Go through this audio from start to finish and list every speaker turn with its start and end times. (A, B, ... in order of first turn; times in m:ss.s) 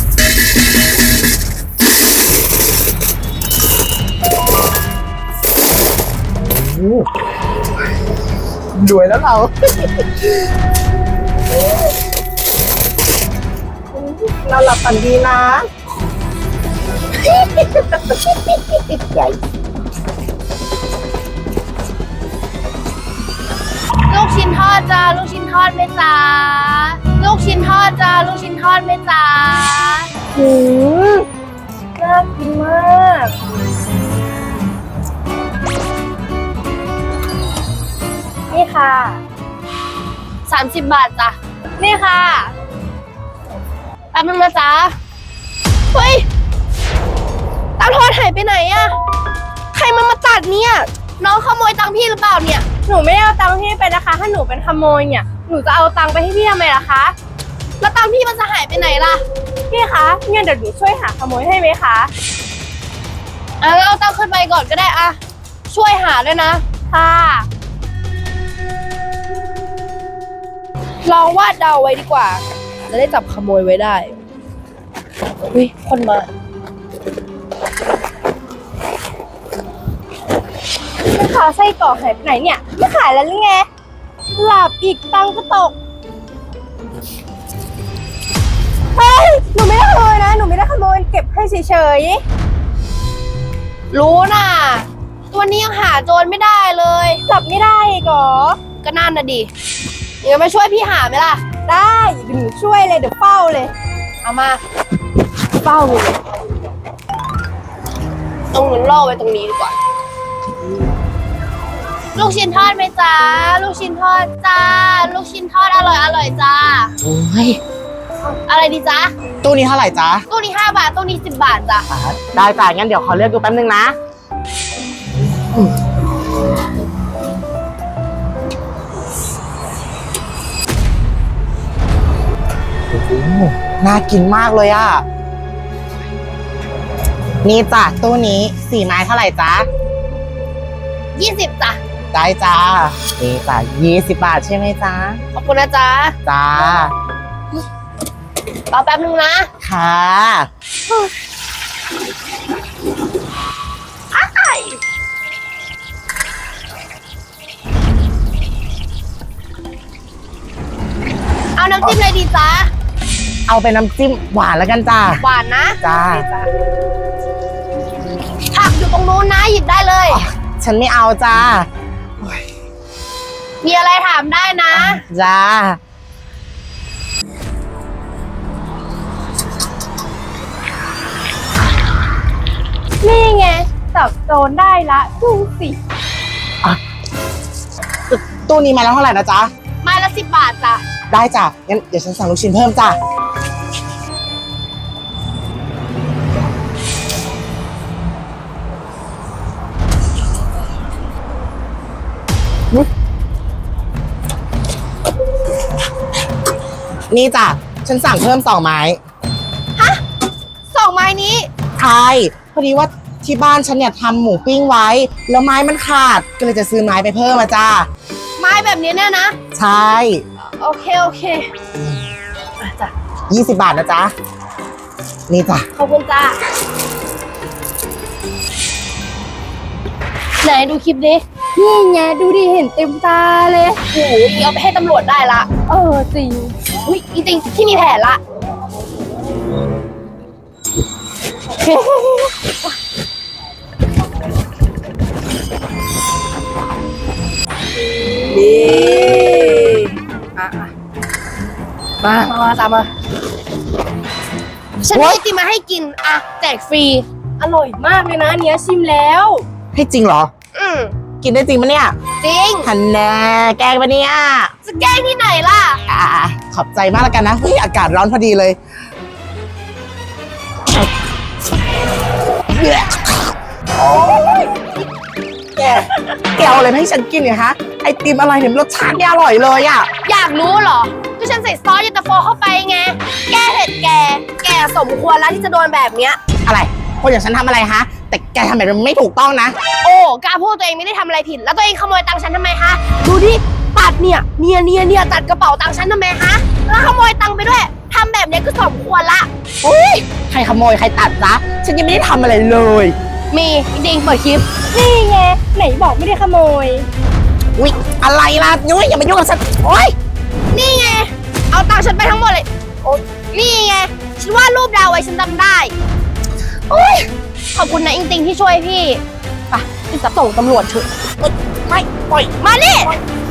0:06.5-0:07.1 A
0:08.8-0:10.2 A
0:13.9-0:15.7 A
0:17.2-0:19.4 A
0:24.1-0:30.1 B
0:30.3-0:31.3 C
0:32.0-0:33.3 C
0:38.5-0:39.2 C
0:40.5-0:41.4 B
0:41.8-0:42.5 C
0:44.1-0:45.0 B
0:45.9-0:46.3 B
0:47.8-0:49.0 B
0:49.7-0:52.8 B
0:52.8-0:57.2 C
0:57.8-0:59.2 B
0:59.7-1:02.1 C
1:03.6-1:06.8 B
1:06.9-1:07.5 C
1:11.1-1:14.1 C
1:15.5-1:16.3 B
1:21.1-1:23.7 C
1:24.4-1:25.8 C
1:29.0-1:32.2 C
1:33.9-1:37.2 B
1:37.3-1:38.6 C
1:38.7-1:39.5 B
1:40.2-1:41.5 B
1:41.6-1:43.7 C
1:44.2-1:44.6 B
1:45.6-1:46.2 C
1:48.5-1:49.8 B
1:52.2-1:56.9 B
1:57.0-1:57.6 A
1:58.2-1:59.1 B
1:59.4-2:00.2 A
2:00.3-2:01.9 B
2:01.9-2:04.0 A
2:05.4-2:05.7 A
2:12.9-2:15.0 A
2:17.4-2:19.7 A
2:21.2-2:21.8 B
2:22.1-2:25.2 A
2:25.3-2:26.2 B
2:26.3-2:26.9 A
2:28.7-2:29.5 B
2:29.6-2:30.5 A
2:34.1-2:34.8 B
2:41.6-2:42.7 B
2:43.5-2:45.2 A
2:45.2-2:46.5 B
2:45.8-2:46.3 A
2:48.5-2:50.2 B
2:50.1-2:51.7 A
2:53.6-2:55.0 B
2:54.7-2:55.8 A
3:03.0-3:05.8 C
3:08.1-3:09.5 A
3:09.8-3:10.8 B
3:11.1-3:13.0 A
3:27.1-3:29.0 A
3:29.8-3:30.0 B
3:30.7-3:31.5 B
3:31.8-3:37.9 A
3:38.4-3:39.4 B
3:39.5-3:40.2 A
3:40.4-3:41.5 B
3:42.6-3:42.9 B
3:43.3-3:44.1 A
3:45.3-3:45.7 A
3:45.8-3:46.4 B
3:50.4-3:51.2 B
3:51.6-3:53.8 C
3:53.9-3:55.6 B
3:55.6-3:56.7 C
3:56.8-3:58.2 B
4:01.7-4:02.0 C
4:02.0-4:02.3 B
4:08.1-4:10.7 C
4:12.0-4:12.9 B
4:14.8-4:17.0 B
4:14.9-4:15.2 A
4:17.4-4:19.4 C
4:19.7-4:20.3 A
4:20.5-4:21.0 B
4:21.2-4:22.0 A
4:22.2-4:22.7 B
4:22.6-4:24.5 A
4:24.6-4:25.8 B
4:25.9-4:28.6 A
4:32.6-4:33.0 A
4:33.9-4:34.5 A
4:35.6-4:39.9 A
4:40.0-4:46.2 B
4:46.5-4:49.6 A
4:49.8-4:59.3 B
4:59.6-5:03.0 A
5:03.3-5:04.5 B
5:04.6-5:06.9 C
5:07.6-5:09.9 A
5:10.5-5:12.5 B
5:13.3-5:15.7 B
5:16.7-5:17.0 A
5:17.5-5:20.9 B
5:21.2-5:22.3 A
5:22.4-5:23.0 B